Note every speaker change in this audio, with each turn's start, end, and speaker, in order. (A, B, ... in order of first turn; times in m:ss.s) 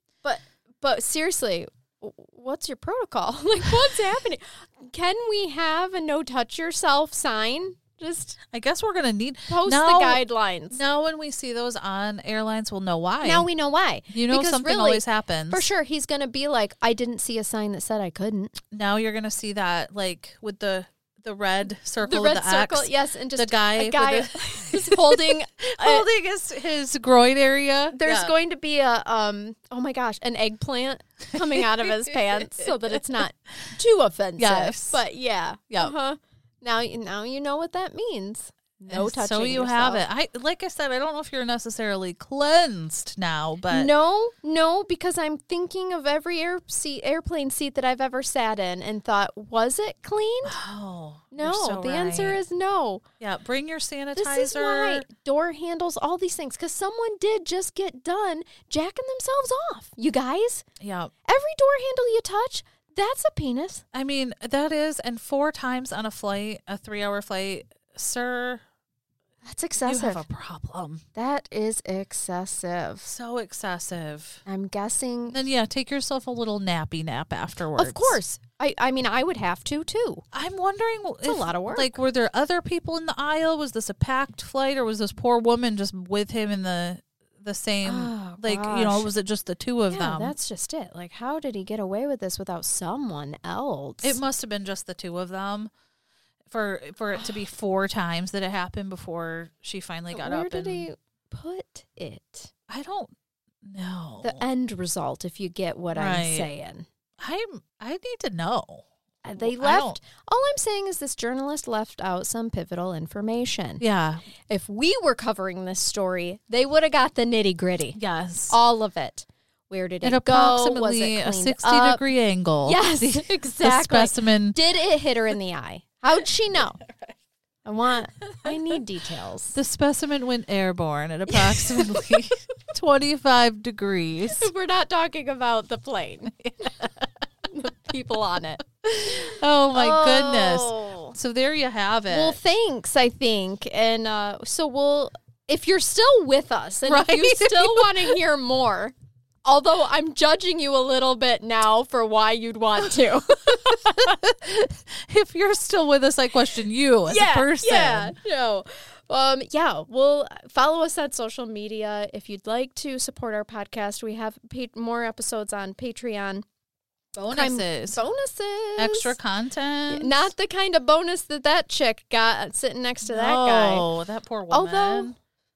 0:00.2-0:08.4 A
0:08.4-0:13.5 B
0:09.5-0:10.8 A
0:13.2-0:18.5 A
0:14.1-0:15.7 B
0:18.7-0:28.3 B
0:22.0-0:26.0 A
0:27.9-0:40.0 A
0:31.4-0:33.2 B
0:34.4-0:35.0 B
0:38.9-0:43.9 B
0:43.7-0:50.6 A
0:50.4-0:52.4 B
0:51.3-0:53.0 A
0:53.2-0:55.0 B
0:54.2-1:00.6 A
1:00.8-1:01.1 B
1:01.2-1:03.8 A
1:03.9-1:08.6 B
1:09.4-1:10.2 A
1:09.8-1:11.0 B
1:11.1-1:13.1 A
1:13.0-1:14.4 B
1:14.4-1:15.4 A
1:15.3-1:18.2 B
1:17.8-1:20.2 A
1:20.3-1:30.3 B
1:21.2-1:22.0 A
1:27.8-1:29.1 A
1:29.9-1:34.2 A
1:34.0-1:35.7 B
1:36.5-1:40.9 B
1:37.1-1:37.4 A
1:40.1-1:42.5 A
1:42.7-1:44.4 B
1:44.2-1:46.9 A
1:45.9-1:46.5 B
1:47.2-1:48.9 B
1:49.2-1:53.8 A
1:49.4-1:50.0 B
1:53.8-1:54.2 B
1:54.5-1:58.0 A
1:57.9-1:58.6 B
1:58.5-2:02.0 A
2:00.0-2:04.6 B
2:02.6-2:06.8 A
2:06.8-2:07.1 B
2:07.6-2:09.6 A
2:08.4-2:08.8 B
2:09.5-2:14.5 B
2:11.3-2:12.7 A
2:14.3-2:16.8 A
2:16.3-2:17.1 B
2:17.5-2:21.2 A
2:18.8-2:22.4 B
2:22.1-2:34.1 A
2:26.9-2:28.2 B
2:33.6-2:38.2 B
2:37.1-2:46.4 A
2:47.1-2:49.1 A
2:47.2-2:48.0 B
2:48.8-2:50.3 B
2:49.9-2:53.9 A
2:53.0-2:55.1 B
2:54.5-2:55.1 A